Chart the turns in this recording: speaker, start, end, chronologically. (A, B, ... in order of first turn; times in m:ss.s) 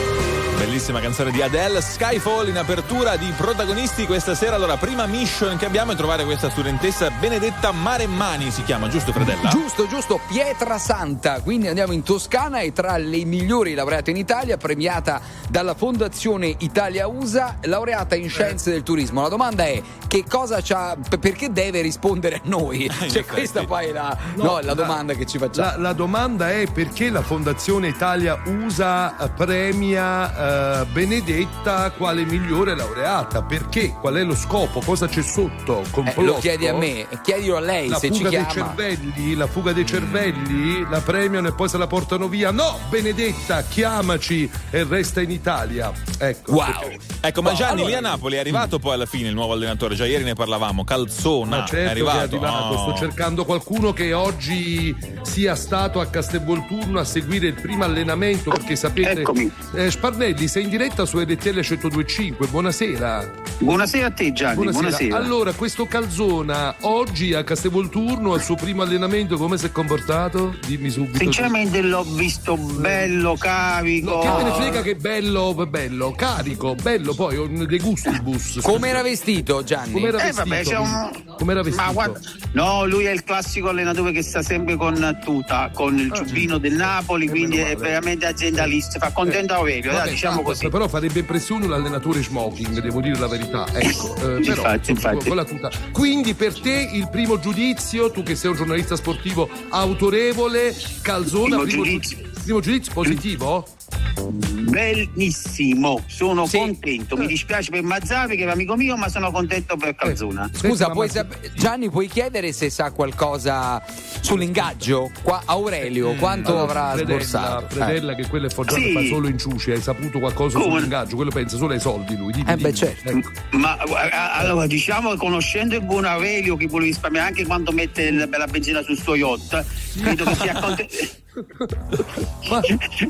0:00.5-0:09.6 A
0:09.2-0:25.7 B
0:22.9-0:23.7 A
0:24.4-0:25.0 C
0:25.5-0:36.9 C
0:36.0-0:38.8 B
0:37.9-0:46.9 C
0:46.5-0:48.1 B
0:47.2-0:53.1 A
0:51.5-1:03.3 C
0:59.0-0:59.5 D
1:03.6-1:05.3 D
1:04.5-1:11.5 C
1:11.1-1:14.9 D
1:12.8-1:13.1 C
1:14.0-1:19.0 C
1:14.2-1:14.7 B
1:18.6-1:20.2 B
1:19.9-1:22.2 C
1:20.2-1:30.7 D
1:26.1-1:26.5 C
1:27.2-1:28.0 C
1:29.2-1:43.7 C
1:33.8-1:35.4 D
1:41.4-1:42.2 D
1:44.3-1:50.5 D
1:46.5-1:46.7 B
1:50.0-1:51.3 C
1:50.6-1:58.0 B
1:54.5-1:54.8 C
1:56.2-2:03.2 C
1:58.7-1:59.2 D
2:00.5-2:00.9 D
2:02.4-2:03.0 B
2:03.5-2:11.1 D
2:09.9-2:10.8 C
2:11.6-2:12.7 C